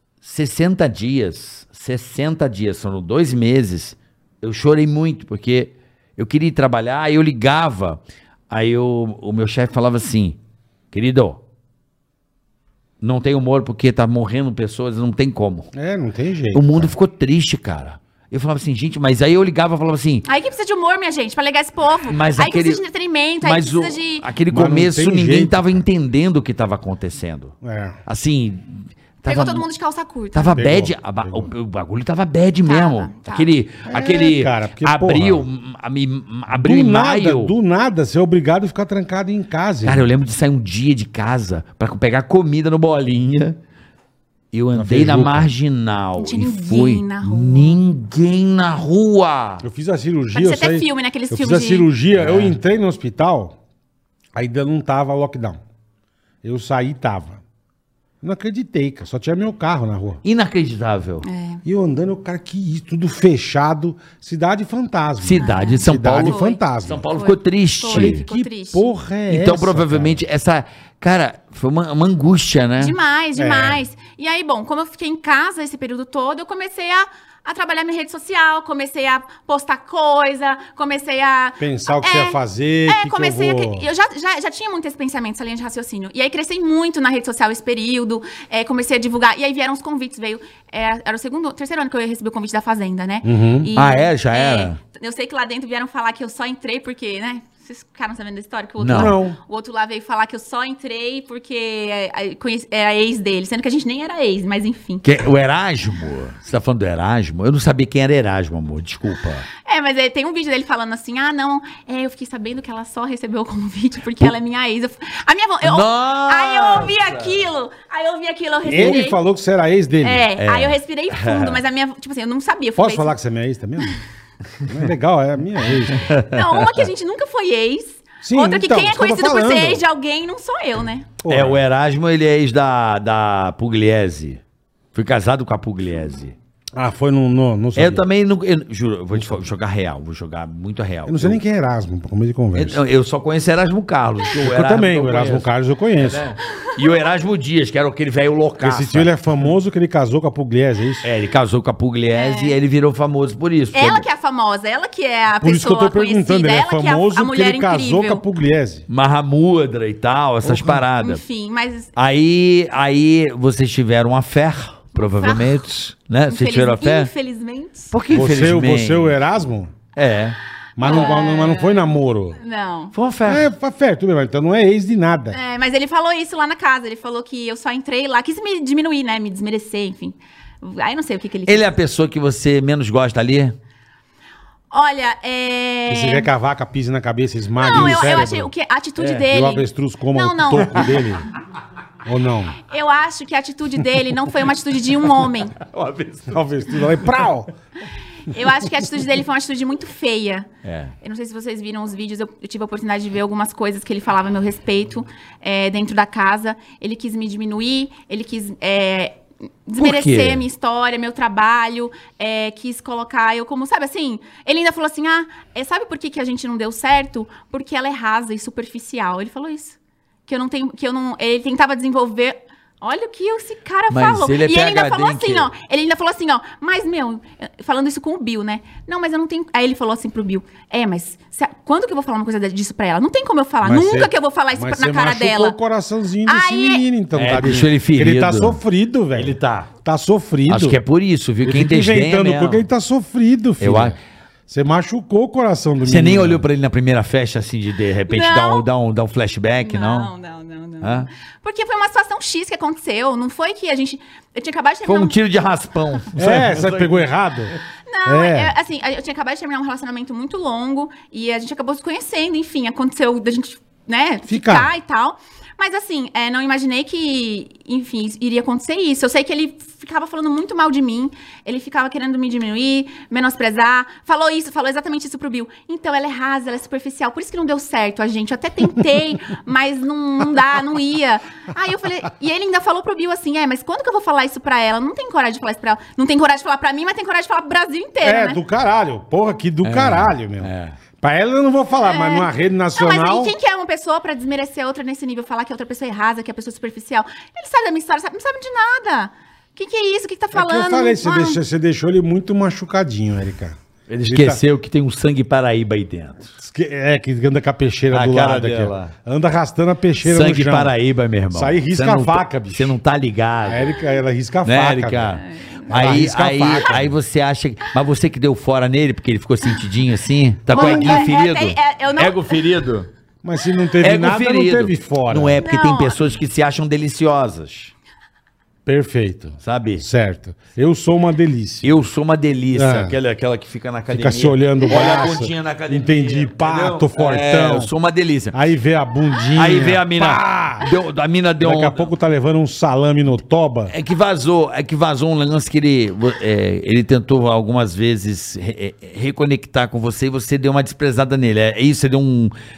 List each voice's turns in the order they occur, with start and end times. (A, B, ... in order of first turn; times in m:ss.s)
0:00.2-0:10.4 A
0:10.9-0:11.4 A
0:13.0-0:15.7 A
0:15.7-0:16.9 B
0:16.5-0:20.2 A
0:20.2-0:24.3 C
0:22.1-0:22.8 A
0:23.4-0:27.6 A
0:24.5-0:25.8 B
0:27.6-0:28.0 B
0:28.1-0:29.7 A
0:29.3-0:30.6 C
0:30.3-0:37.5 A
0:30.5-0:31.5 B
0:32.7-0:33.5 C
0:33.9-0:35.5 B
0:36.5-0:40.1 B
0:39.8-0:43.6 A
0:44.5-0:49.6 A
0:44.7-0:45.5 B
0:46.2-0:47.8 C
0:49.6-0:53.6 B
0:50.3-0:51.9 C
0:52.1-0:52.6 A
0:54.4-0:55.6 B
0:56.4-0:57.4 B
0:58.2-1:00.2 B
1:00.2-1:01.3 A
1:01.2-1:01.6 C
1:01.6-1:07.0 B
1:05.2-1:08.2 A
1:05.4-1:06.6 C
1:07.1-1:08.9 C
1:07.9-1:10.2 B
1:09.3-1:13.0 A
1:12.8-1:45.0 C
1:13.4-1:13.8 B
1:21.6-1:23.9 B
1:33.2-1:33.7 B
1:33.8-1:34.8 A
1:38.8-1:39.2 A
1:38.9-1:39.4 B
1:45.0-1:49.5 A
1:49.6-1:59.2 C
1:55.6-1:57.4 A
1:58.6-2:00.2 B
2:00.0-2:03.2 C
2:00.4-2:01.6 A
2:02.8-2:04.0 B
2:04.7-2:06.1 B
2:05.9-2:06.9 A
2:06.2-2:11.1 C
2:08.2-2:09.8 B
2:11.2-2:11.6 B
2:11.3-2:14.4 A
2:14.9-2:16.4 A
2:16.8-2:18.0 B
2:17.8-2:21.4 A
2:19.1-2:19.5 B
2:21.1-2:22.8 B
2:22.6-2:29.1 A
2:24.3-2:26.3 B
2:28.6-2:31.1 B
2:31.0-2:34.1 A
2:32.1-2:32.6 C
2:33.7-2:38.2 C
2:35.4-2:38.8 B
2:38.9-2:41.2 A
2:40.4-2:40.8 B
2:41.0-2:41.9 C
2:42.0-2:47.1 A
2:45.0-2:45.6 C
2:46.3-2:48.0 C
2:47.9-2:49.2 A
2:48.1-2:49.7 B
2:50.0-2:50.4 A
2:50.8-2:52.4 B
2:50.8-2:52.9 C
2:52.9-2:53.5 A
2:53.2-2:55.4 B
2:55.3-3:01.7 C
3:01.5-3:03.6 A
3:04.7-3:06.3 C
3:05.9-3:08.5 B
3:07.6-3:10.9 C
3:07.7-3:08.1 A
3:09.0-3:09.2 A
3:09.3-3:11.3 B
3:12.0-3:12.6 B
3:12.7-3:15.6 C
3:15.6-3:17.0 A
3:16.3-3:17.6 B
3:18.3-3:20.5 C
3:20.6-3:20.9 A
3:21.0-3:55.6 C
3:29.8-3:30.4 A
3:43.9-3:45.5 A
3:53.6-4:00.8 B
3:56.3-3:56.8 C
3:57.1-3:58.6 A
3:59.2-3:59.7 A
4:00.5-4:02.6 A
4:01.4-4:06.4 B
4:03.6-4:04.0 A
4:05.8-4:10.1 A
4:08.1-4:08.7 C
4:09.6-4:15.2 C
4:10.8-4:11.1 A
4:14.8-4:17.6 A
4:16.2-4:17.5 B
4:17.9-4:48.4 C
4:18.0-4:18.5 B
4:24.3-4:24.7 B
4:48.0-4:53.3 B
4:49.6-4:50.8 A
4:51.8-5:01.4 C
5:00.3-5:04.4 B
5:03.9-5:06.3 A
5:06.4-5:10.7 B
5:07.9-5:08.9 A
5:10.0-5:13.8 A
5:11.3-5:12.8 B
5:13.4-5:15.2 B
5:14.4-5:22.9 A
5:15.2-5:15.7 C
5:15.7-5:16.9 B
5:20.5-5:22.4 C
5:20.5-5:21.1 B
5:23.2-5:25.4 B
5:23.8-5:27.7 A
5:25.4-5:26.1 C
5:28.7-5:31.8 B
5:29.4-5:29.8 A
5:31.6-5:38.4 A
5:32.5-5:33.0 B
5:33.9-5:37.7 B
5:38.3-5:40.7 B
5:39.4-5:41.9 A
5:41.4-5:43.7 B
5:43.7-5:52.3 A